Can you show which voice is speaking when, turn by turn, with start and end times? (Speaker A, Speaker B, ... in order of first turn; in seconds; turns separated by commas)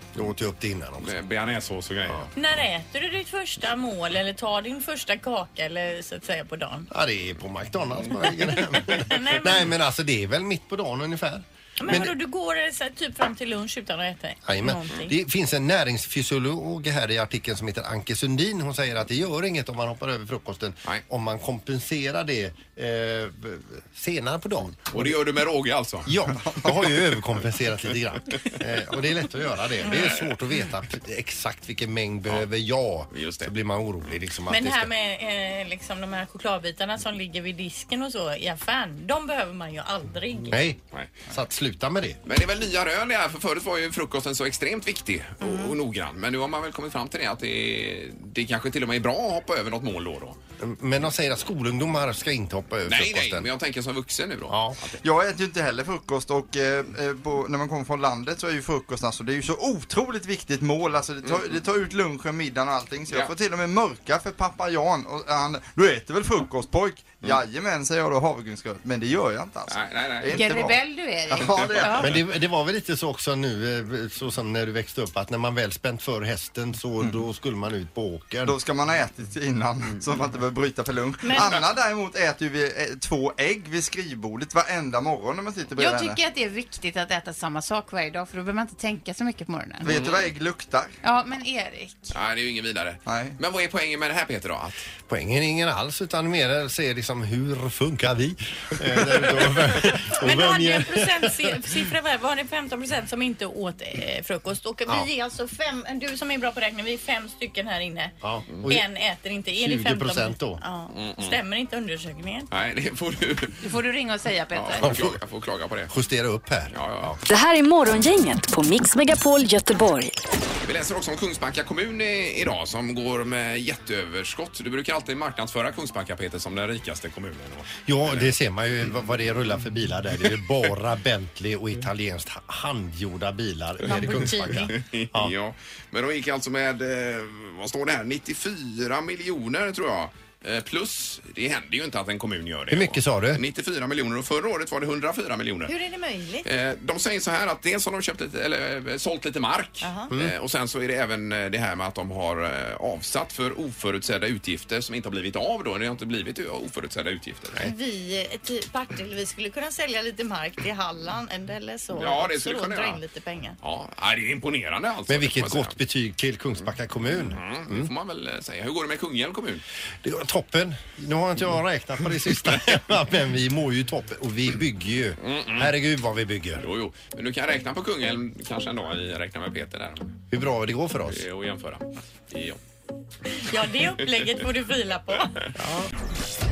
Speaker A: 0.1-1.1, Speaker B: 1.0-2.3, Speaker C: 2.4-6.9, Speaker A: 6.9-12.1, Speaker C: 8.3-9.7, Speaker C: 11.8-15.1, Speaker A: 14.4-25.1, Speaker B: 24.9-26.1, Speaker A: 26.0-34.9, Speaker C: 29.9-30.1, Speaker B: 33.1-33.5, Speaker C: 34.5-40.6, Speaker A: 40.5-42.2, Speaker B: 42.2-50.4, Speaker C: 45.4-45.7, Speaker A: 50.6-53.5, Speaker B: 52.9-55.0, Speaker A: 54.5-54.8, Speaker D: 55.0-72.1, Speaker B: 69.7-70.4, Speaker E: 70.3-72.0, Speaker B: 71.3-72.1, Speaker A: 72.0-78.5, Speaker D: 78.4-86.2, Speaker C: 81.2-81.7, Speaker E: 85.7-89.9, Speaker D: 89.8-90.9, Speaker B: 89.8-90.3, Speaker E: 91.0-92.1, Speaker B: 92.1-94.8, Speaker D: 93.0-93.3, Speaker A: 95.1-101.6, Speaker C: 100.2-108.1, Speaker A: 108.2-108.8, Speaker B: 108.5-108.8, Speaker C: 108.7-112.5, Speaker A: 109.5-110.6, Speaker B: 110.9-111.4, Speaker B: 112.5-113.7, Speaker E: 113.6-115.0, Speaker B: 114.5-115.9, Speaker A: 114.8-115.2, Speaker A: 115.9-117.2, Speaker B: 116.7-117.1, Speaker F: 117.2-120.2, Speaker B: 120.6-128.3, Speaker A: 127.8-135.3, Speaker C: 133.8-134.7, Speaker B: 133.8-145.7, Speaker A: 142.7-143.4, Speaker C: 145.7-146.5, Speaker B: 146.4-157.7, Speaker C: 149.8-150.1, Speaker C: 157.6-163.6, Speaker B: 161.9-163.0, Speaker B: 163.6-165.7, Speaker A: 165.1-167.9, Speaker B: 167.1-169.6, Speaker A: 170.0-176.6, Speaker B: 175.2-175.7, Speaker B: 176.6-180.1, Speaker A: 180.3-181.2, Speaker B: 181.1-182.6, Speaker C: 183.4-185.4, Speaker A: 185.6-185.9